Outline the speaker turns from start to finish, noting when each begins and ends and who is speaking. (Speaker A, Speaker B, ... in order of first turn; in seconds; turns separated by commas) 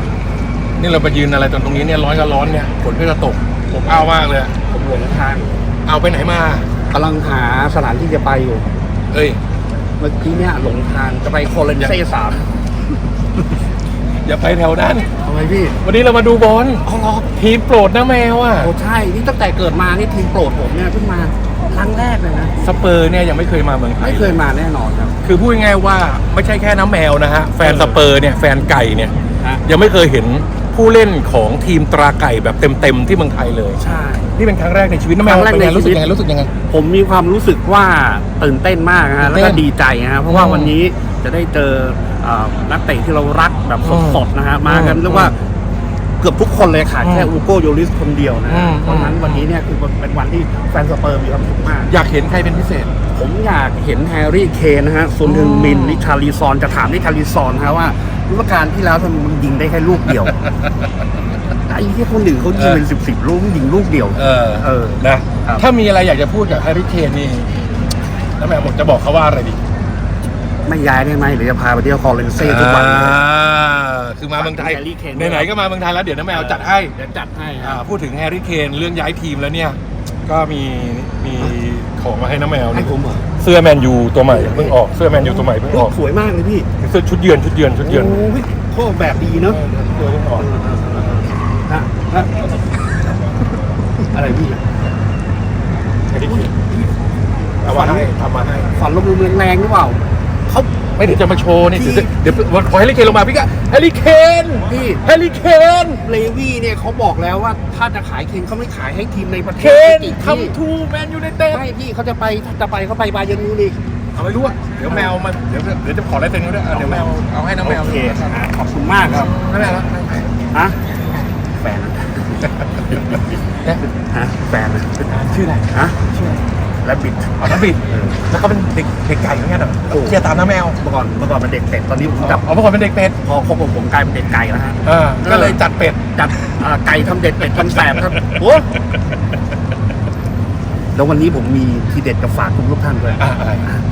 Speaker A: 0.8-4.5, Speaker B: 4.6-5.6, Speaker A: 5.8-6.7, Speaker B: 6.9-8.7, Speaker A: 9.1-9.4, Speaker B: 10.0-12.5, Speaker A: 14.2-15.1, Speaker B: 15.2-15.8, Speaker A: 15.8-18.7, Speaker B: 16.8-17.3, Speaker B: 18.6-22.5, Speaker A: 22.6-24.4, Speaker B: 24.0-25.1, Speaker A: 25.2-29.1, Speaker B: 27.6-28.0, Speaker A: 29.6-33.8, Speaker B: 33.8-34.3, Speaker A: 34.4-36.5, Speaker B: 35.2-36.1, Speaker B: 36.6-45.4, Speaker A: 39.2-39.6, Speaker A: 40.3-40.7, Speaker A: 43.8-45.4, Speaker B: 46.2-51.9, Speaker A: 47.0-47.3, Speaker A: 48.5-49.5, Speaker A: 51.9-52.9, Speaker B: 53.1-60.4, Speaker A: 55.2-56.0, Speaker A: 60.4-60.7, Speaker B: 61.7-65.6, Speaker A: 62.5-62.8, Speaker A: 64.2-67.5, Speaker A: 68.4-69.6, Speaker B: 70.7-73.2, Speaker A: 72.4-76.9, Speaker B: 74.4-75.5, Speaker B: 76.3-77.8, Speaker A: 77.6-85.9, Speaker B: 82.7-83.2, Speaker B: 84.3-86.7, Speaker A: 86.8-88.2, Speaker B: 87.8-89.6, Speaker A: 89.5-90.5, Speaker B: 90.3-92.3, Speaker B: 94.1-94.6, Speaker A: 96.1-96.5, Speaker B: 96.2-96.8, Speaker A: 97.6-98.7, Speaker B: 97.6-98.1, Speaker B: 98.7-100.7, Speaker A: 101.0-106.0, Speaker B: 101.7-102.1, Speaker B: 104.7-105.0, Speaker B: 106.0-110.5, Speaker A: 109.6-111.7, Speaker B: 111.5-113.8, Speaker A: 114.1-118.3, Speaker B: 114.9-115.1, Speaker B: 116.7-119.3, Speaker A: 119.0-120.3, Speaker B: 120.5-120.8, Speaker B: 121.6-123.3, Speaker B: 123.8-125.1, Speaker A: 125.1-126.4, Speaker B: 125.7-126.0, Speaker B: 126.8-128.2, Speaker A: 127.4-130.8, Speaker B: 129.9-130.2, Speaker B: 130.7-132.5, Speaker A: 132.1-133.2, Speaker B: 133.2-135.6, Speaker A: 134.8-136.0, Speaker B: 136.1-138.7, Speaker A: 137.6-138.4, Speaker B: 140.9-143.2, Speaker A: 143.2-143.6